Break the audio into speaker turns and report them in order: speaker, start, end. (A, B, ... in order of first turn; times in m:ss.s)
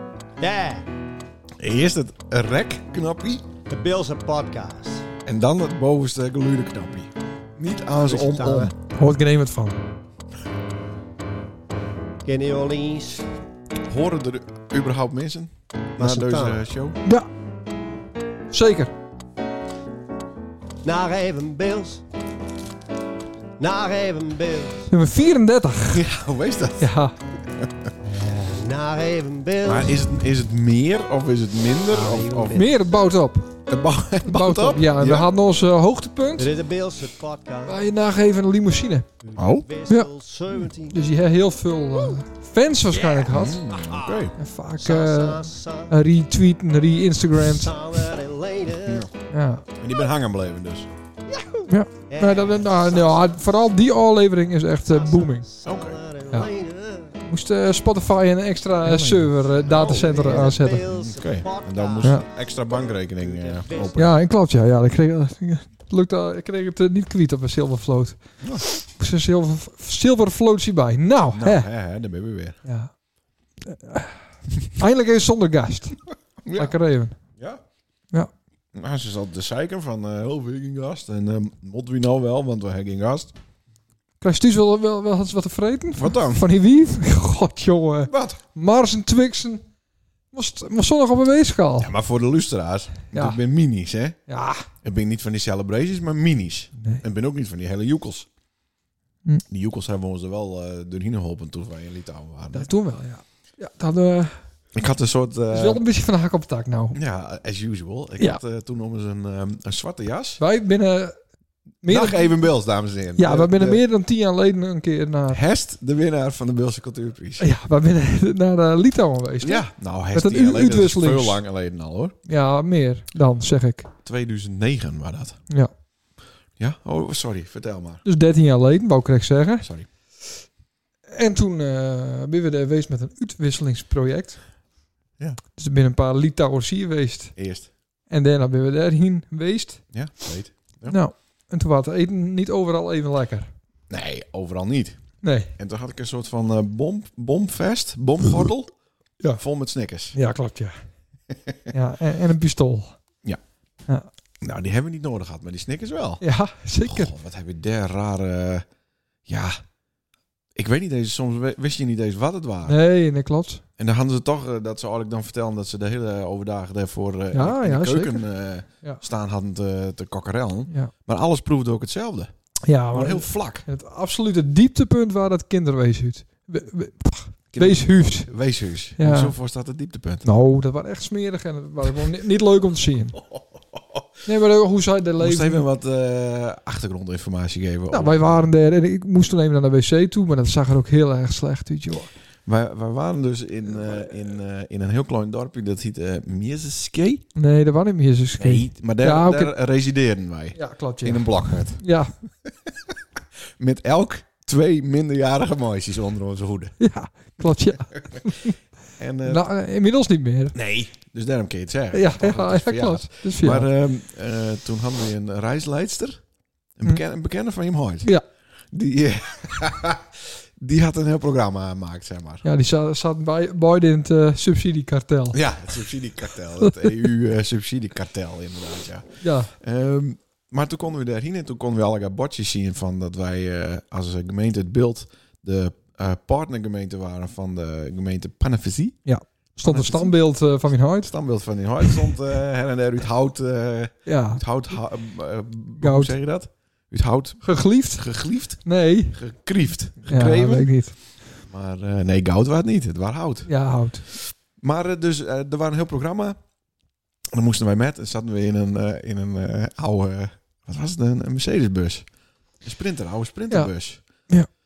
0:00.4-0:00.9 A
0:01.6-0:03.4 B
0:03.7-0:05.1 A
0:05.2-0:08.7 B
0:08.0-0:08.7 A
0:08.9-0:09.8 C
0:12.2-0:13.3 A
0:13.9-0:17.0 B
0:16.0-0:16.6 A
0:18.5-0:18.9 C
0:20.8-0:22.0 A
0:23.6-0:24.9 A
0:24.9-0:26.0 C
0:25.9-0:26.9 B
0:26.8-0:27.2 C
0:27.6-0:27.9 B
0:28.0-0:30.1 A
0:29.6-0:32.7 B
0:31.9-0:32.7 A
0:32.5-0:33.5 C
0:33.7-0:35.3 B
0:34.2-0:36.5 C
0:36.4-0:37.8 A
0:37.7-0:39.1 C
0:39.3-0:41.0 A
0:39.4-0:39.7 B
0:40.8-0:43.6 C
0:43.2-0:44.4 B
0:43.8-0:45.9 A
0:44.4-0:47.8 C
0:47.4-0:49.1 A
0:48.8-0:49.1 B
0:49.3-0:49.6 C
0:49.8-0:50.9 B
0:51.4-0:53.4 A
0:51.7-0:55.5 C
0:54.9-0:57.2 A
0:55.6-0:56.0 B
0:57.3-1:00.8 C
0:58.8-1:04.1 B
0:59.7-1:04.0 A
1:04.0-1:08.2 C
1:08.7-1:11.7 C
1:11.3-1:12.6 B
1:12.6-1:12.9 C
1:13.6-1:16.0 C
1:16.4-1:16.8 B
1:16.5-1:17.2 C
1:17.4-1:17.6 B
1:18.7-1:23.3 B
1:24.2-1:29.6 C
1:26.0-1:26.5 B
1:28.1-1:28.4 B
1:30.3-1:31.9 C
1:31.8-1:34.2 B
1:33.1-1:33.4 C
1:34.3-1:34.7 C
1:34.8-1:38.3 B
1:36.8-1:37.0 C
1:39.5-1:42.7 B
1:42.5-1:44.4 C
1:44.8-1:45.8 B
1:45.5-1:47.0 C
1:46.9-1:50.4 B
1:50.4-1:51.2 C
1:51.8-1:52.4 C
1:51.9-1:53.8 B
1:53.2-1:55.4 C
1:55.3-1:57.5 B
1:57.4-2:01.4 C
1:59.4-2:02.2 B
2:02.3-2:03.9 C
2:04.0-2:05.4 B
2:06.6-2:08.0 B
2:08.0-2:09.7 C
2:09.6-2:09.9 B
2:11.1-2:14.4 C
2:15.6-2:17.4 C
2:17.4-2:17.7 B
2:18.1-2:19.8 C
2:19.9-2:21.0 B
2:20.9-2:23.5 C
2:23.9-2:25.0 B
2:25.2-2:25.5 C
2:25.6-2:28.7 B
2:29.4-2:30.2 B
2:30.1-2:30.8 C
2:31.3-2:31.7 B
2:31.7-2:33.0 C
2:34.4-2:36.2 B
2:36.2-2:37.1 C
2:36.8-2:38.7 B
2:39.3-2:39.6 B
2:40.6-2:42.8 B
2:42.7-2:43.6 C
2:43.8-2:52.3 B
2:47.3-2:48.2 C
2:52.7-2:58.3 C
2:52.9-2:53.6 B
2:57.5-3:00.3 B
2:59.0-2:59.3 C
3:00.2-3:03.2 C
3:03.2-3:04.1 B
3:04.2-3:05.7 C
3:05.2-3:08.5 B
3:07.9-3:12.1 C
3:12.5-3:17.2 B
3:17.4-3:19.5 C
3:18.4-3:21.8 B
3:20.5-3:22.1 C
3:22.4-3:22.9 B
3:23.6-3:26.8 B
3:26.8-3:28.6 C
3:28.0-3:28.2 B
3:29.0-3:29.4 B
3:29.2-3:30.6 C
3:30.5-3:36.2 B
3:31.9-3:33.7 C
3:36.8-3:38.1 B
3:38.7-3:42.4 B
3:42.4-3:45.4 C
3:45.3-3:59.0 B
3:49.2-3:49.5 C
3:59.0-4:01.1 C
3:59.6-4:10.7 B
4:04.1-4:04.4 C
4:05.8-4:06.2 C
4:07.4-4:08.1 C
4:08.6-4:09.2 C
4:10.1-4:11.0 C
4:11.4-4:13.5 B
4:13.5-4:14.1 C
4:14.6-4:16.4 B
4:17.3-4:22.1 B
4:22.6-4:24.0 B